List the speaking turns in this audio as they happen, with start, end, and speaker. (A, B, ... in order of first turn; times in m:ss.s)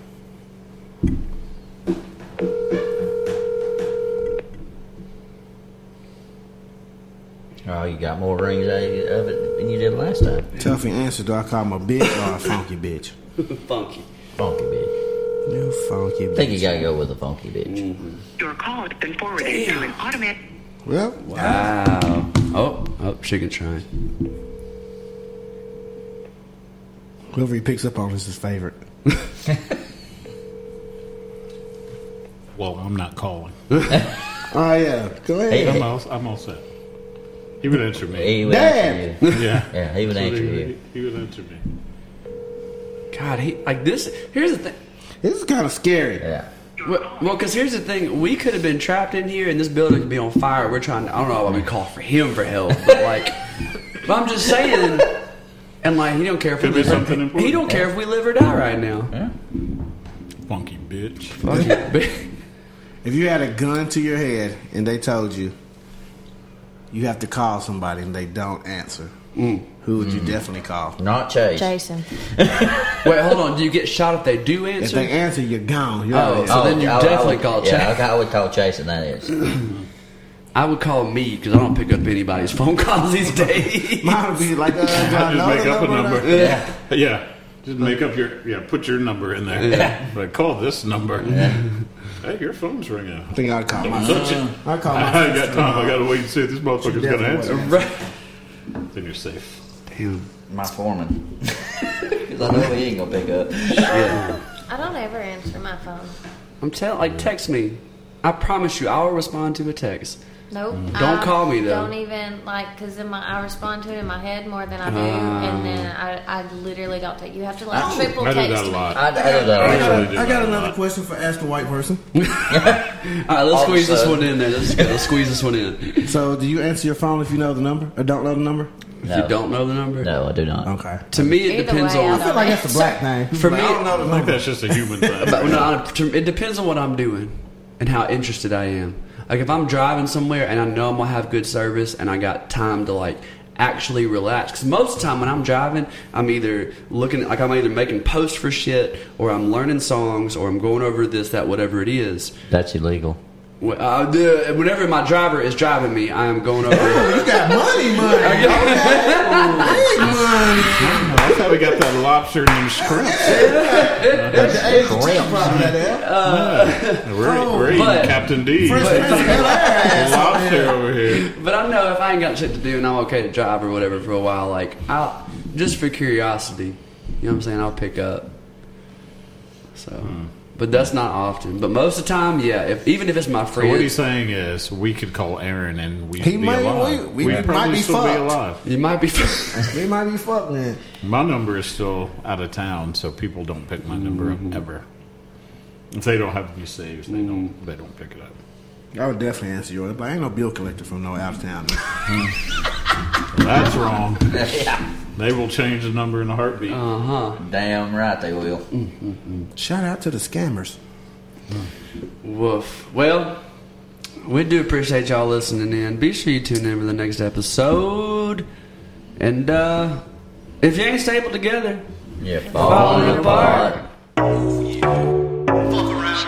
0:07.6-0:10.5 A
0:10.6-0:13.1 B
0:13.4-0:14.0 C
0:14.4-0:14.9 A
0:15.4-0:16.9 B
0:16.3-0:17.8 A
0:17.6-0:18.2 C
0:18.4-0:20.4 D
0:19.4-0:20.0 C
0:20.8-0:21.7 B
0:21.2-0:23.8 C
0:27.3-0:28.8 B
0:32.5-0:33.9 E
0:34.5-0:35.9 B
0:35.5-0:35.9 A
0:35.6-0:36.6 E
0:37.6-0:38.4 E
0:38.1-0:40.7 A
0:38.4-0:39.2 B
0:39.2-0:41.6 E
0:43.1-0:44.7 C
0:45.2-0:46.3 B
0:46.2-0:46.5 A
0:46.8-0:53.4 C
0:46.8-0:47.4 D
0:54.0-0:55.1 C
0:55.8-0:59.1 C
0:56.6-0:57.7 E
0:57.6-0:57.9 A
1:00.5-1:01.6 E
1:01.4-1:02.3 C
1:03.0-1:05.5 B
1:06.9-1:09.1 B
1:09.4-1:09.7 C
1:09.8-1:11.0 B
1:10.0-1:10.4 A
1:11.0-1:13.2 A
1:11.6-1:12.1 F
1:13.0-1:15.1 C
1:14.8-1:17.0 B
1:16.1-1:18.0 C
1:16.4-1:19.3 A
1:20.5-1:24.2 C
1:24.0-1:26.4 B
1:24.9-1:31.5 E
1:26.3-1:26.6 C
1:26.3-1:26.7 A
1:29.6-1:30.0 C
1:29.7-1:30.0 A
1:31.2-1:31.6 A
1:32.2-1:33.4 E
1:33.3-1:36.1 B
1:33.9-1:37.8 E
1:33.9-1:34.6 A
1:36.8-1:37.9 B
1:37.5-1:37.9 C
1:38.9-1:39.6 E
1:39.9-1:40.2 C
1:40.5-1:44.3 A
1:43.8-1:44.4 C
1:44.7-1:46.2 F
1:46.6-1:50.2 C
1:50.5-1:59.9 F
1:50.7-1:51.0 E
1:50.9-1:51.9 C
1:54.8-1:55.9 C
1:57.7-1:58.1 A
1:58.1-2:00.8 E
1:58.9-2:00.1 A
1:59.4-2:02.0 B
1:59.7-2:00.0 C
2:02.2-2:06.2 C
2:02.5-2:02.9 A
2:03.5-2:05.0 A
2:06.0-2:08.7 B
2:09.0-2:09.4 A
2:09.0-2:10.1 C
2:10.0-2:11.2 A
2:10.6-2:11.0 B
2:11.1-2:12.7 C
2:11.4-2:12.9 F
2:12.1-2:15.6 B
2:13.3-2:13.9 C
2:13.9-2:15.8 E
2:15.2-2:32.3 C
2:32.5-2:33.2 A
2:33.6-2:40.2 C
2:36.6-2:41.6 B
2:40.7-2:44.6 E
2:42.8-2:46.2 B
2:43.2-2:44.9 C
2:44.5-2:45.7 A
2:45.4-2:51.3 E
2:46.0-2:47.1 C
2:47.2-2:48.0 B
2:47.7-2:50.1 C
2:48.6-2:50.8 B
2:51.1-2:58.3 C
2:59.7-3:03.9 C
3:00.0-3:00.3 E
3:03.5-3:08.6 E
3:06.2-3:08.4 B
3:07.2-3:07.5 C
3:08.6-3:09.8 C
3:09.5-3:10.8 B
3:11.0-3:14.8 E
3:14.0-3:14.6 C
3:15.9-3:18.4 E
3:17.1-3:17.5 C
3:18.9-3:21.8 B
3:23.3-3:24.6 E
3:24.3-3:24.8 A
3:25.2-3:26.8 E
3:26.7-3:27.4 C
3:27.4-3:28.6 A
3:28.7-3:29.5 C
3:29.5-3:30.8 B
3:32.2-3:33.4 C
3:34.2-3:38.4 C
3:39.2-3:40.0 C
3:40.6-3:41.8 C
3:42.2-3:43.8 A
3:42.5-3:43.8 C